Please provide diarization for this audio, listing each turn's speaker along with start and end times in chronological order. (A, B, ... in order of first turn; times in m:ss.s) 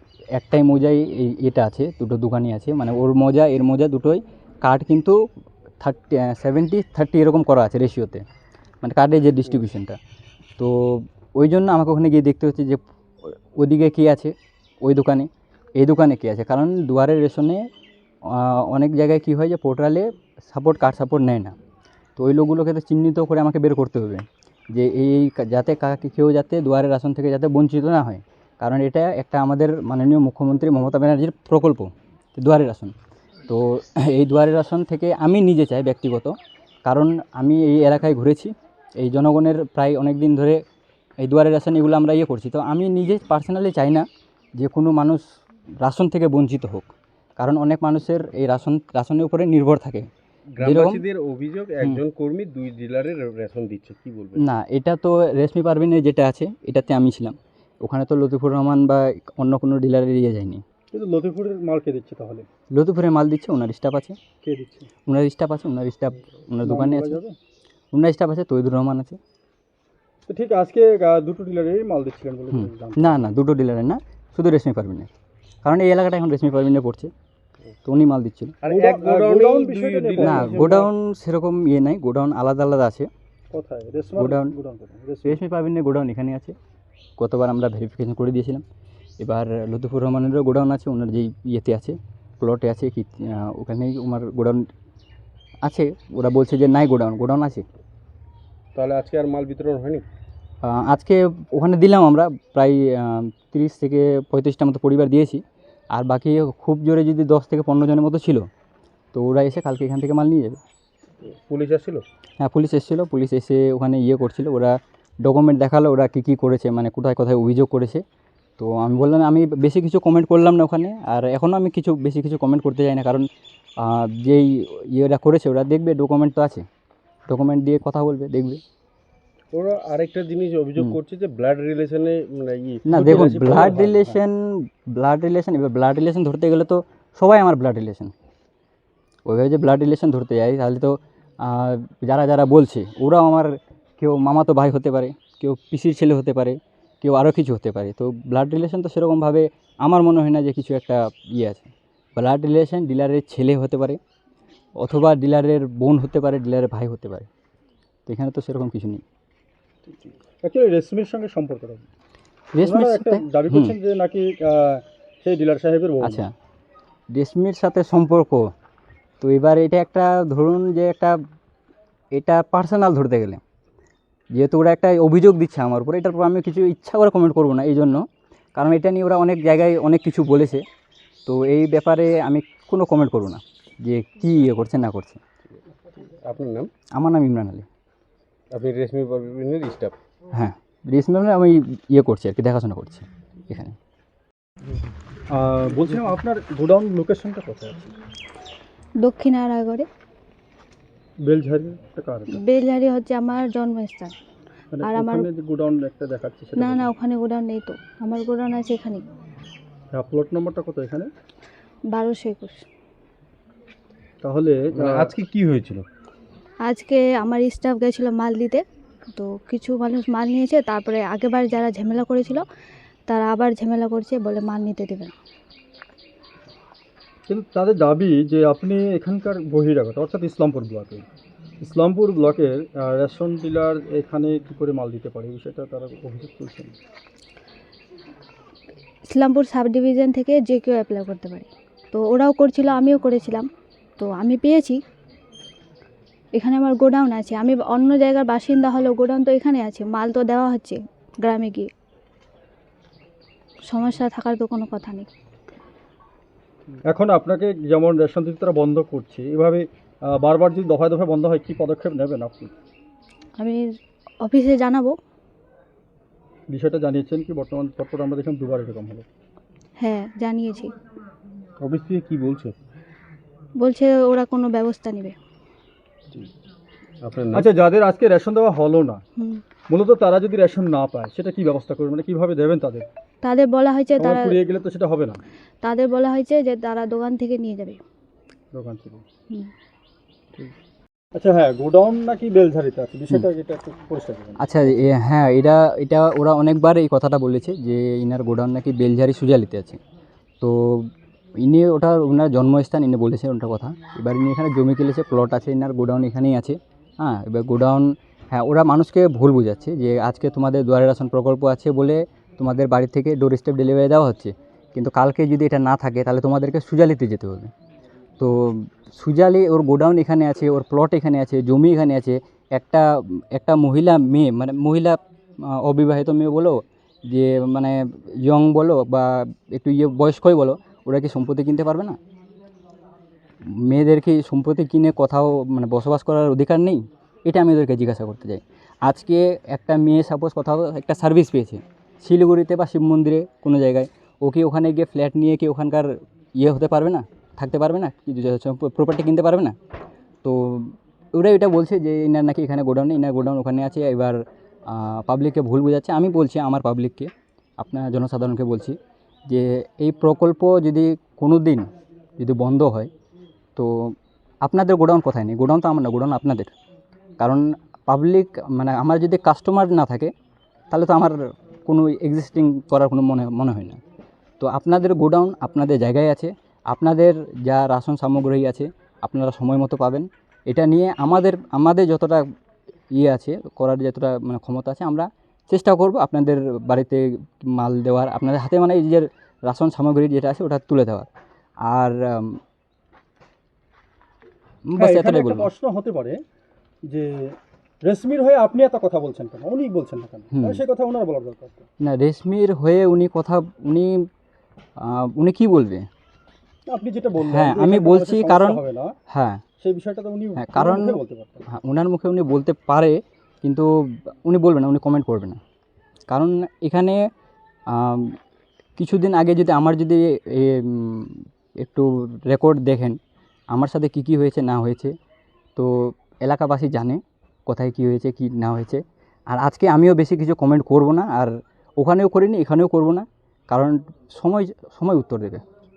0:00.3-0:05.2 A
0:05.8-0:08.2 A
0:08.8-0:10.0 A
0:10.6-0:17.7 A
0:18.3-0:21.5 A
0:22.2-0:32.9 A
0:33.5-0:40.6 A
0:41.2-0:45.2 A
0:45.8-0:50.1 A
0:50.5-0:54.4 B
0:50.6-0:51.0 A
0:54.4-1:00.6 A
1:00.9-1:02.5 C
1:02.7-1:04.2 A
1:04.4-1:04.9 C
1:05.1-1:07.2 A
1:06.6-1:07.4 C
1:07.9-1:09.2 A
1:10.3-1:13.2 C
1:12.5-1:15.1 A
1:15.6-1:17.1 A
1:17.8-1:18.6 A
1:18.6-1:20.5 B
1:18.6-1:20.9 C
1:20.2-1:23.1 A
1:23.5-1:25.4 C
1:24.2-1:24.6 A
1:25.2-1:26.6 A
1:27.2-1:28.6 A
1:29.2-1:34.7 A
1:35.6-1:37.6 A
1:38.7-1:40.0 B
1:40.6-1:48.5 A
1:49.1-1:50.6 A
1:51.2-1:52.0 B
1:52.4-1:58.0 A
1:58.6-2:03.3 A
2:03.8-2:06.6 A
2:07.3-2:08.6 A
2:09.5-2:14.2 B
2:12.8-2:18.1 A
2:19.2-2:34.0 A
2:34.8-2:37.3 A
2:38.1-2:39.0 A
2:40.0-2:41.8 C
2:42.5-2:43.8 A
2:42.6-2:46.2 C
2:46.0-2:46.3 A
2:47.1-2:48.5 A
2:49.2-2:51.2 A
2:52.1-2:53.4 A
2:54.3-2:58.0 A
2:58.6-3:00.6 A
3:01.2-3:05.2 A
3:06.2-3:06.7 B
3:07.0-3:07.7 A
3:08.5-3:10.0 B
3:10.3-3:13.7 A
3:15.3-3:17.9 C
3:19.0-3:19.8 D
3:21.2-3:22.4 C
3:22.3-3:24.1 D
3:24.7-3:26.9 C
3:24.8-3:25.3 D
3:26.6-3:29.0 D
3:29.9-3:31.1 C
3:31.9-3:32.6 D
3:34.2-3:35.2 C
3:34.7-3:35.8 B
3:36.6-3:38.6 D
3:39.2-3:42.4 D
3:43.1-3:45.1 D
3:47.3-3:51.0 C
3:51.6-3:56.7 C
3:59.1-4:03.4 D
4:04.0-4:04.8 D
4:06.3-4:11.7 D
4:13.7-4:15.0 D
4:16.8-4:22.5 C
4:24.2-4:25.0 D
4:26.5-4:29.0 C
4:29.8-4:30.7 D
4:31.6-4:32.5 B
4:33.6-4:35.2 D
4:37.0-4:37.5 B
4:37.3-4:39.0 C
4:39.7-4:42.9 C
4:43.2-4:44.4 D
4:44.0-4:45.2 C
4:45.6-4:47.8 D
4:48.5-4:49.0 C
4:51.1-4:54.4 C
4:54.4-4:59.8 A
5:00.4-5:00.9 A
5:01.4-5:17.5 A
5:18.2-5:25.0 A
5:25.6-5:32.0 A
5:33.5-5:49.5 A
5:50.2-5:58.8 A
5:59.3-6:01.7 A
6:02.2-6:02.9 A
6:03.6-6:06.5 A
6:07.2-6:10.1 A
6:10.7-6:13.8 A
6:14.4-6:22.2 A
6:22.9-6:31.1 A
6:31.6-6:32.4 A
6:34.7-6:35.5 A
6:34.8-6:36.2 C
6:36.9-6:41.6 C
6:40.3-6:40.6 A
6:41.8-6:44.1 A
6:44.8-6:45.8 A
6:46.6-6:48.9 C
6:47.2-6:49.4 A
6:49.6-6:51.5 C
6:50.4-6:51.0 A
6:51.5-6:55.4 A
6:56.1-6:57.0 A
6:57.7-6:58.2 A
6:58.8-7:03.0 A
7:03.5-7:04.9 A
7:05.6-7:15.4 A